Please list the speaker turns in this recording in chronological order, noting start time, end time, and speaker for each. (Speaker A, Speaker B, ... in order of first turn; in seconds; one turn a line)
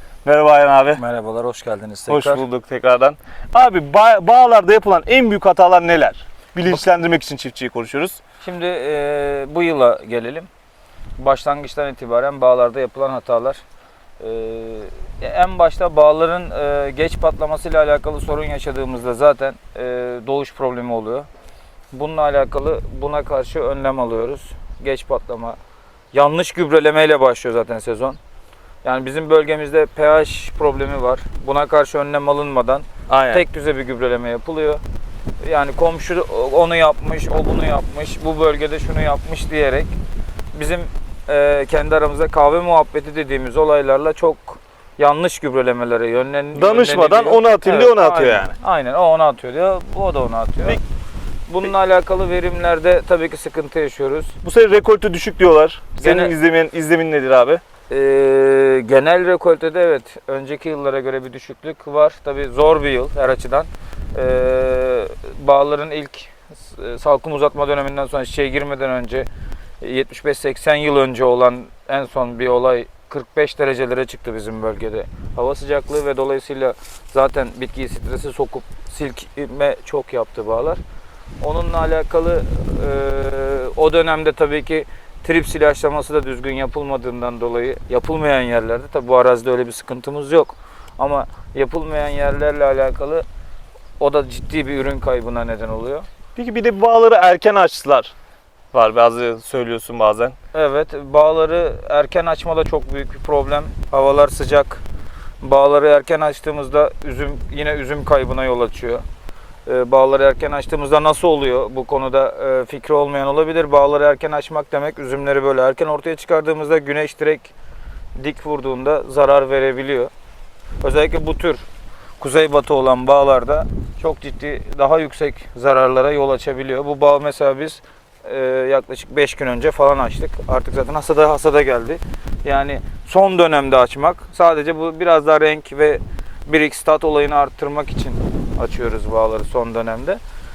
Speaker A: 0.2-1.0
Speaker B: 0.9-2.4
Speaker A: 2.1-8.2
Speaker B: 8.4-10.5
Speaker B: 11.2-13.6
Speaker B: 14.2-21.3
Speaker B: 21.9-25.6
Speaker B: 26.1-28.2
Speaker B: 28.8-34.8
Speaker A: 33.1-33.4
Speaker B: 35.4-39.9
Speaker B: 40.5-50.8
Speaker A: 46.5-48.5
Speaker B: 51.5-54.4
Speaker A: 54.4-57.6
Speaker B: 56.0-56.3
Speaker B: 57.9-69.3
Speaker B: 69.8-80.8
Speaker B: 81.4-93.2
Speaker B: 94.0-96.0
Speaker A: 96.3-98.1
Speaker A: 98.7-100.3
Speaker B: 100.5-104.8
Speaker B: 105.4-109.0
Speaker B: 109.7-117.5
Speaker B: 118.2-120.1
Speaker B: 120.8-121.6
Speaker B: 122.2-140.2